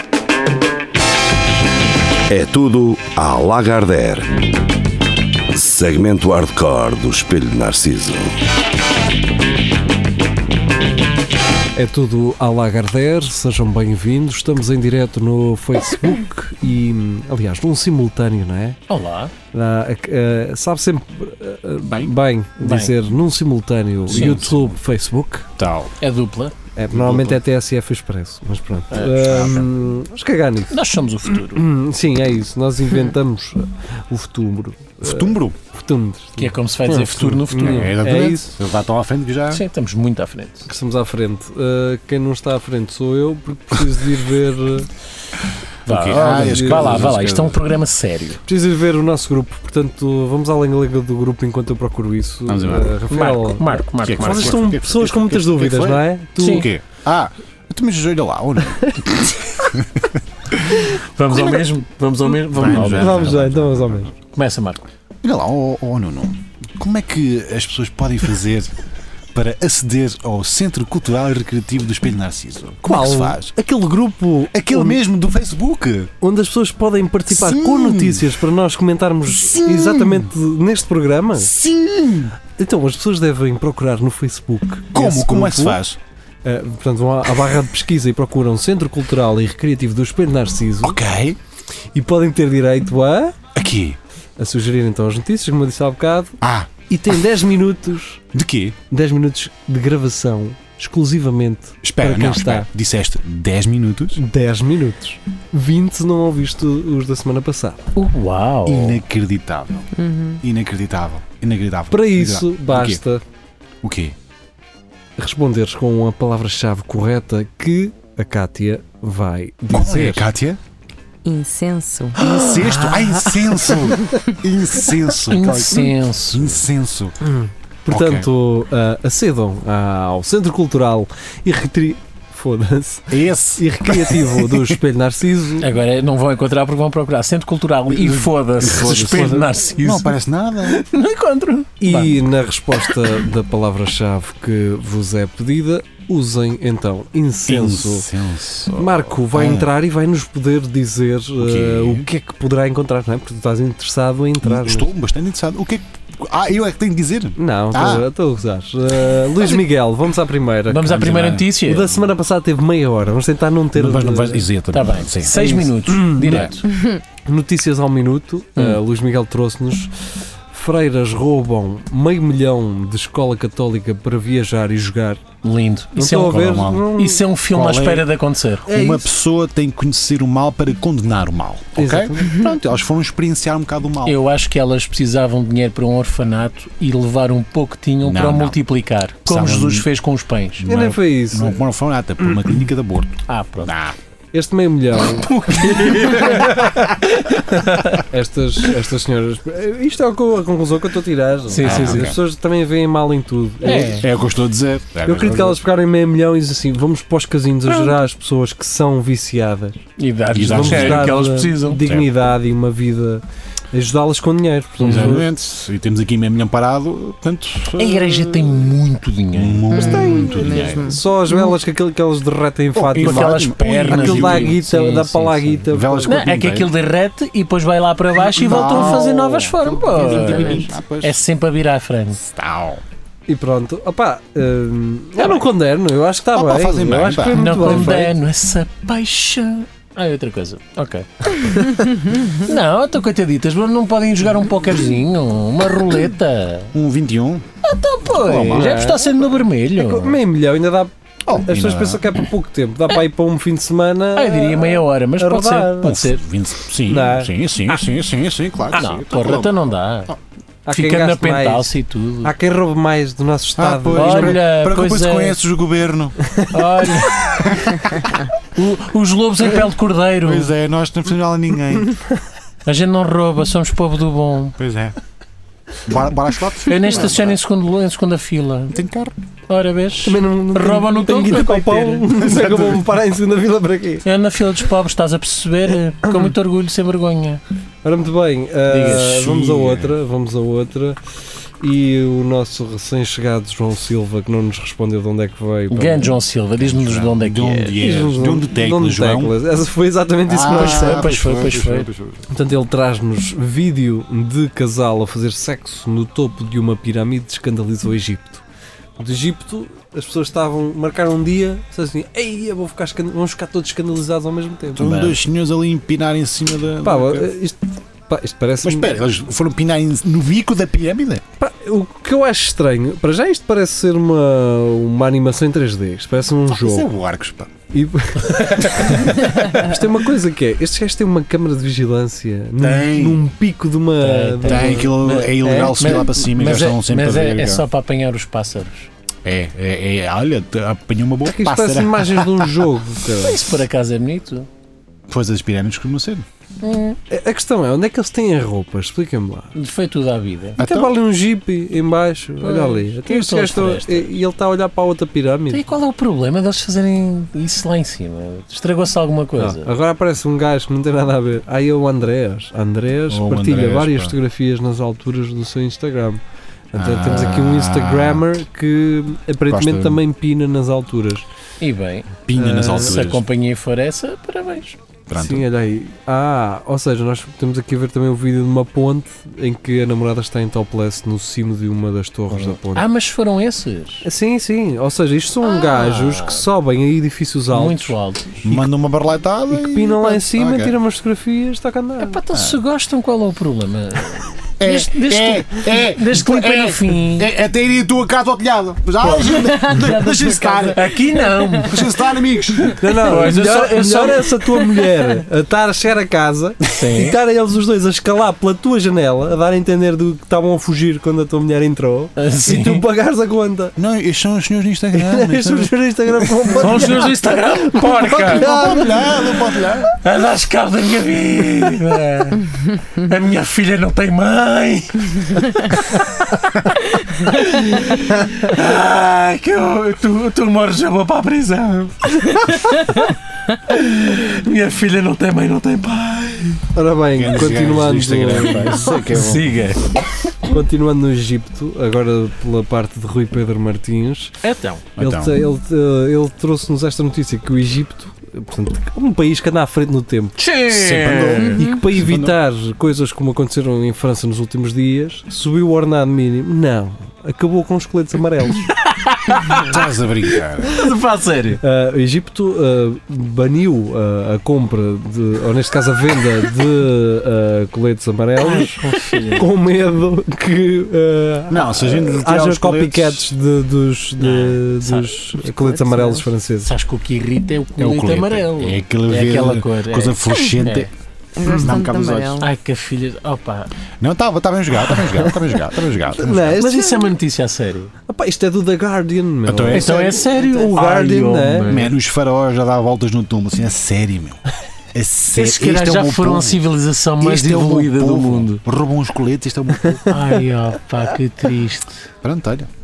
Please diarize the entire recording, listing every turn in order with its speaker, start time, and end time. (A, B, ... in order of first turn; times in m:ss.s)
0:02.3-0:04.2 A
0:05.7-0:06.6 A
0:11.8-0:18.8 B
0:18.9-0:19.3 C
0:19.5-0:25.5 B
0:21.8-0:22.1 D
0:22.6-0:22.9 C
0:24.1-0:24.8 D
0:24.1-0:24.4 C
0:25.6-0:26.0 D
0:26.0-0:26.5 C
0:26.8-0:30.8 B
0:26.9-0:27.4 D
0:28.9-0:29.4 C
0:29.2-0:29.7 D
0:30.7-0:31.6 C
0:31.3-0:38.5 B
0:35.0-0:35.6 D
0:36.4-0:37.9 C
0:37.6-0:39.6 D
0:39.5-0:40.7 C
0:40.7-0:44.9 B
0:45.8-0:48.4 C
0:45.9-0:47.6 D
0:46.2-0:47.2 B
0:48.4-0:56.7 B
0:52.5-0:53.0 D
0:53.1-0:54.7 C
0:54.0-1:01.6 D
0:56.4-0:56.7 C
0:58.7-0:59.6 B
1:00.8-1:03.4 C
1:02.5-1:04.1 D
1:02.6-1:04.1 B
1:04.3-1:04.8 C
1:05.2-1:08.7 D
1:09.3-1:13.5 D
1:12.8-1:15.0 B
1:14.5-1:16.1 D
1:16.2-1:21.5 B
1:17.3-1:18.4 D
1:19.4-1:20.3 D
1:21.4-1:22.4 D
1:22.6-1:25.8 B
1:24.9-1:26.0 D
1:26.4-1:31.0 B
1:30.8-1:31.4 D
1:31.9-1:33.4 B
1:33.6-1:34.0 D
1:34.4-1:36.4 B
1:36.4-1:36.7 D
1:36.9-1:38.2 B
1:38.3-1:38.8 D
1:38.9-1:42.7 B
1:41.8-1:44.2 D
1:44.2-1:47.8 B
1:48.0-1:49.0 C
1:48.6-1:49.9 D
1:50.0-1:50.4 E
1:50.4-1:53.0 D
1:51.9-1:53.2 B
1:53.8-1:54.2 D
1:55.2-2:00.3 B
1:59.7-2:00.6 D
2:01.2-2:02.3 E
2:02.2-2:03.9 C
2:02.2-2:07.2 D
2:05.3-2:06.6 C
2:07.2-2:15.7 B
2:07.9-2:08.3 D
2:13.1-2:14.8 D
2:15.6-2:22.2 C
2:17.9-2:20.8 D
2:21.8-2:28.1 B
2:22.8-2:23.2 C
2:27.5-2:29.7 D
2:28.7-2:34.9 B
2:31.4-2:32.1 D
2:34.4-2:38.1 D
2:37.4-2:44.5 B
2:40.7-2:41.9 C
2:40.8-2:41.5 D
2:43.7-2:46.5 D
2:44.7-2:46.7 C
2:45.4-2:46.6 B
2:47.2-2:49.9 B
2:50.5-2:55.2 B
2:55.4-2:58.7 C
2:56.0-2:57.3 B
2:56.3-2:56.9 D
2:57.5-2:58.1 D
2:58.7-2:59.1 B
2:58.7-3:04.2 D
3:01.8-3:02.5 B
3:04.0-3:10.6 C
3:08.0-3:08.6 D
3:09.2-3:09.9 D
3:10.6-3:14.0 D
3:10.6-3:11.6 B
3:12.2-3:12.5 B
3:13.3-3:13.7 C
3:14.3-3:24.1 B
3:15.0-3:18.0 C
3:21.5-3:22.2 C
3:21.6-3:22.2 D
3:23.6-3:24.0 C
3:24.0-3:25.6 D
3:25.0-3:29.8 B
3:30.0-3:31.8 C
3:30.3-3:31.2 D
3:30.5-3:35.2 B
3:31.8-3:32.3 D
3:34.8-3:35.2 C
3:34.8-3:38.8 D
3:37.8-3:39.9 C
3:39.3-3:40.9 D
3:39.7-3:41.5 E
3:39.8-3:46.3 B
3:42.7-3:44.6 D
3:43.0-3:52.2 C
3:45.7-3:46.7 D
3:48.2-3:51.2 D
3:50.0-3:50.7 E
3:52.2-3:52.8 D
3:53.3-3:58.2 B
3:56.3-3:57.9 D
3:57.3-4:06.7 C
4:06.7-4:07.5 D
4:07.6-4:10.2 C
4:08.1-4:08.8 D
4:08.5-4:09.1 B
4:09.8-4:16.0 B
4:11.3-4:12.1 D
4:14.1-4:16.2 C
4:15.8-4:20.2 D
4:16.9-4:17.3 B
4:18.7-4:20.1 C
4:20.6-4:24.4 B
4:20.7-4:22.4 C
4:23.6-4:26.2 D
4:23.9-4:25.4 C
4:26.5-4:27.7 C
4:27.4-4:28.1 D
4:28.6-4:30.5 C
4:30.2-4:31.9 D
4:32.7-4:34.6 C
4:34.6-4:35.0 D
4:35.9-4:37.4 D
4:36.7-4:38.8 C
4:38.7-4:39.1 D
4:39.5-4:42.3 C
4:40.0-4:44.1 B
4:42.4-4:42.8 D
4:44.0-4:47.4 C
4:46.1-4:46.3 B
4:47.8-4:51.0 B
4:48.7-4:49.2 C
4:49.1-4:50.0 D
4:51.6-4:56.1 B
4:55.7-4:57.9 C
4:56.6-4:59.4 D
4:57.8-5:01.1 B
5:00.3-5:02.3 D
5:00.4-5:01.9 C
5:02.3-5:08.4 B
5:09.0-5:15.0 B
5:14.8-5:17.3 D
5:14.8-5:15.2 C
5:16.8-5:19.0 B
5:18.6-5:21.2 D
5:21.4-5:26.9 B
5:26.5-5:27.5 D
5:27.7-5:34.9 B
5:28.4-5:29.3 C
5:32.6-5:33.2 D
5:34.0-5:38.9 C
5:34.4-5:37.6 D
5:35.5-5:35.7 B
5:39.2-5:42.6 D
5:41.2-5:43.5 B
5:43.1-5:44.5 C
5:45.1-5:46.2 D
5:46.6-5:47.0 C
5:47.1-5:49.5 B
5:49.6-5:50.6 C
5:50.6-5:51.0 D
5:50.6-5:55.6 B
5:52.4-5:54.1 C
5:55.5-5:59.7 C
5:59.4-6:06.2 B
6:03.1-6:04.2 D
6:06.7-6:11.2 B
6:06.7-6:08.3 D
6:09.5-6:10.0 D
6:11.6-6:12.1 C
6:12.3-6:13.3 D
6:12.4-6:13.0 B
6:12.8-6:14.8 C
6:15.1-6:15.5 D
6:15.2-6:22.9 B
6:22.7-6:24.0 C
6:24.0-6:28.7 B
6:25.4-6:26.4 C
6:27.5-6:28.5 C
6:28.4-6:30.8 D
6:29.5-6:32.2 B
6:32.0-6:37.3 C
6:34.6-6:40.9 D
6:39.0-6:42.1 C
6:39.3-6:40.8 E
6:41.4-6:41.7 E
6:41.5-6:43.2 D
6:42.8-6:53.8 B
6:42.8-6:44.8 C
6:46.8-6:47.2 C
6:52.2-6:52.8 C
6:53.8-6:56.7 D
6:54.9-6:57.1 B
6:56.6-6:58.8 C
6:58.0-6:59.1 B
6:58.2-7:00.0 D
6:59.9-7:16.6 C
7:16.7-7:18.9 B
7:17.1-7:19.5 D
7:18.6-7:20.0 C
7:20.4-7:24.4 B
7:24.4-7:24.9 C
7:25.0-7:25.4 D
7:25.0-7:30.4 B
7:30.4-7:31.6 C
7:30.7-7:32.4 D
7:31.6-7:38.7 B
7:38.8-7:39.8 C
7:39.6-7:40.8 D
7:40.6-7:41.6 C
7:41.6-7:48.8 B
7:48.4-7:49.5 C
7:49.3-7:56.7 B
7:51.5-7:53.3 D
7:54.2-7:55.3 C
7:55.4-7:56.3 E
7:56.6-8:00.9 C
7:57.8-8:00.9 D
8:01.4-8:02.5 E
8:01.4-8:02.4 D
8:02.4-8:03.7 C
8:04.0-8:06.6 D
8:04.9-8:05.4 B
8:06.1-8:07.1 B
8:06.5-8:07.9 C
8:08.1-8:11.8 B
8:09.4-8:10.0 D
8:09.7-8:12.0 C
8:11.7-8:14.4 D
8:14.9-8:16.6 D
8:15.4-8:18.6 C
8:17.2-8:20.0 D
8:19.8-8:20.1 B
8:20.1-8:22.0 C
8:22.2-8:22.7 D